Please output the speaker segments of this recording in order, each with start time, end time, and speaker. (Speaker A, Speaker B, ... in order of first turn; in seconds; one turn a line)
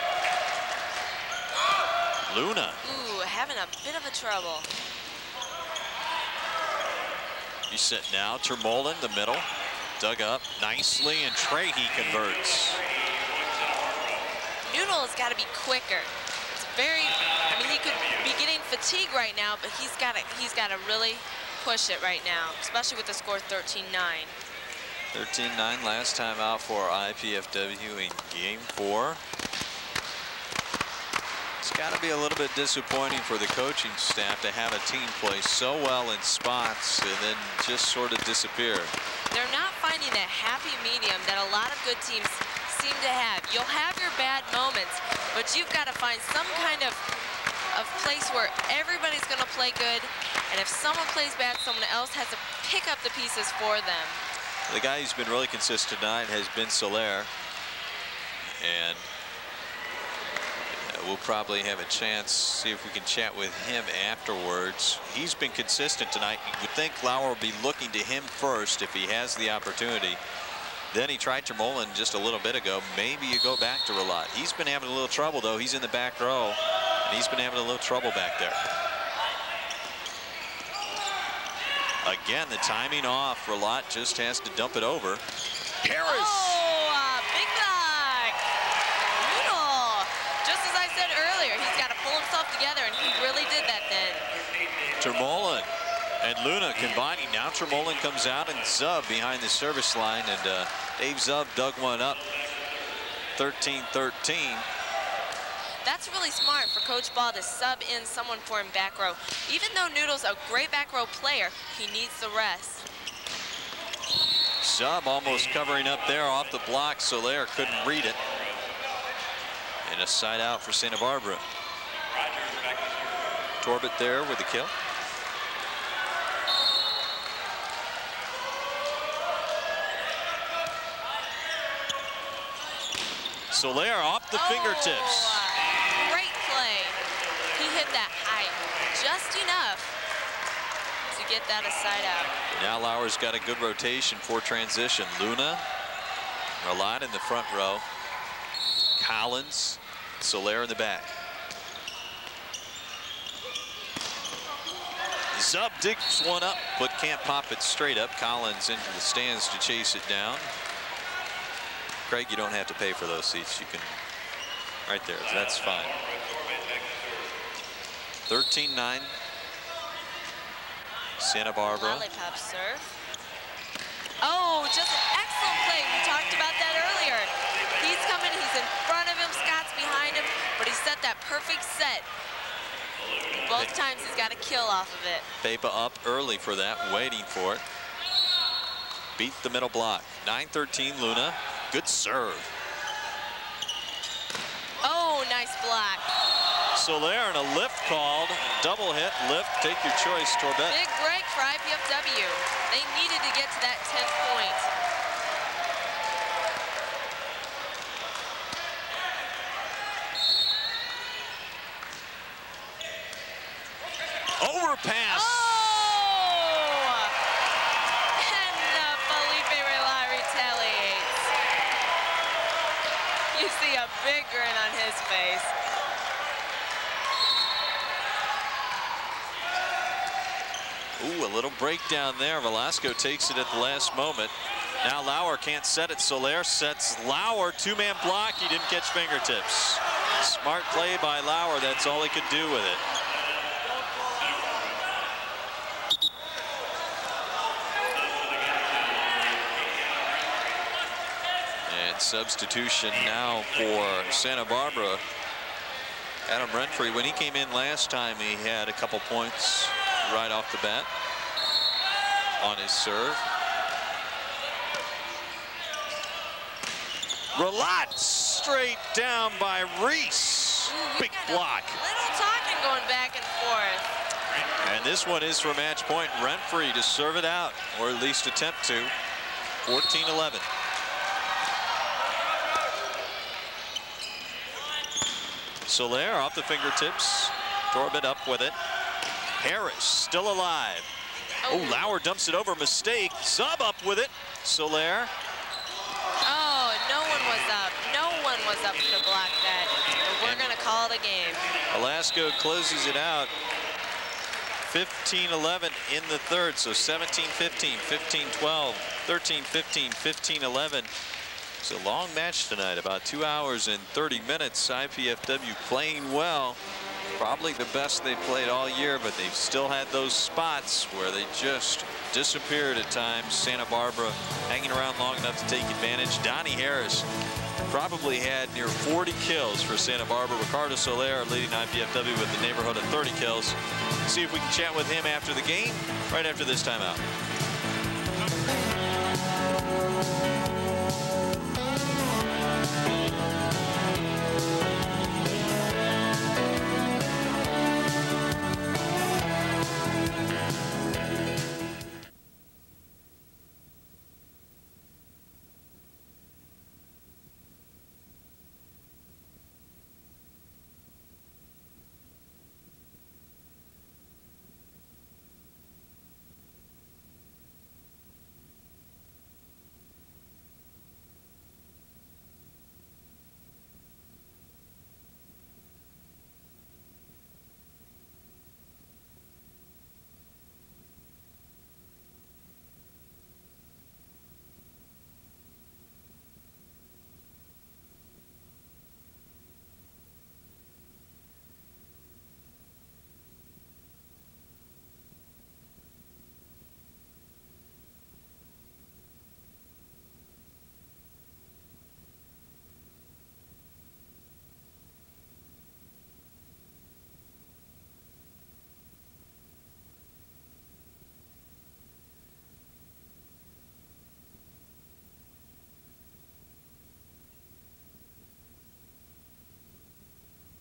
Speaker A: 2.3-2.8
Speaker B: 2.8-4.7
Speaker A: 7.7-12.8
Speaker B: 14.7-24.3
Speaker A: 25.1-29.2
Speaker A: 31.6-39.0
Speaker B: 39.3-47.0
Speaker B: 47.7-54.2
Speaker A: 54.7-57.3
Speaker A: 58.5-59.1
Speaker A: 60.7-70.2
Speaker A: 70.9-78.6
Speaker A: 82.0-85.3
Speaker A: 85.8-86.6
Speaker B: 86.1-88.5
Speaker B: 89.2-94.2
Speaker A: 95.0-102.3
Speaker A: 103.4-104.7
Speaker B: 105.8-112.9
Speaker A: 114.6-118.2
Speaker A: 119.8-121.5
Speaker A: 123.6-124.7
Speaker A: 133.5-135.4
Speaker B: 134.3-137.0
Speaker B: 137.6-139.9
Speaker B: 141.1-142.3
Speaker A: 142.5-145.6
Speaker A: 146.6-147.8
Speaker A: 149.0-151.2
Speaker A: 155.3-160.5
Speaker A: 162.1-164.0
Speaker A: 164.9-166.0
Speaker A: 168.3-169.1
Speaker A: 171.2-172.1
Speaker B: 171.7-173.0
Speaker B: 174.2-182.1
Speaker B: 183.3-185.3
Speaker A: 185.4-187.6
Speaker A: 189.2-192.5
Speaker B: 194.8-196.1
Speaker A: 196.7-200.8
Speaker B: 200.7-204.7
Speaker A: 214.4-215.6
Speaker B: 215.1-217.2
Speaker B: 218.2-221.3
Speaker B: 223.3-225.5
Speaker A: 231.0-242.8
Speaker A: 251.7-255.1
Speaker A: 256.3-260.9
Speaker A: 262.4-263.3
Speaker A: 267.3-271.8
Speaker B: 270.7-273.9
Speaker A: 274.6-278.9
Speaker A: 279.6-280.5
Speaker A: 285.7-288.6
Speaker A: 289.4-290.9
Speaker B: 291.4-291.9
Speaker A: 291.5-295.1
Speaker B: 296.3-301.5
Speaker A: 300.2-300.6
Speaker A: 301.7-303.3
Speaker A: 304.7-310.9
Speaker A: 311.6-316.6
Speaker A: 317.2-327.1
Speaker A: 327.7-337.1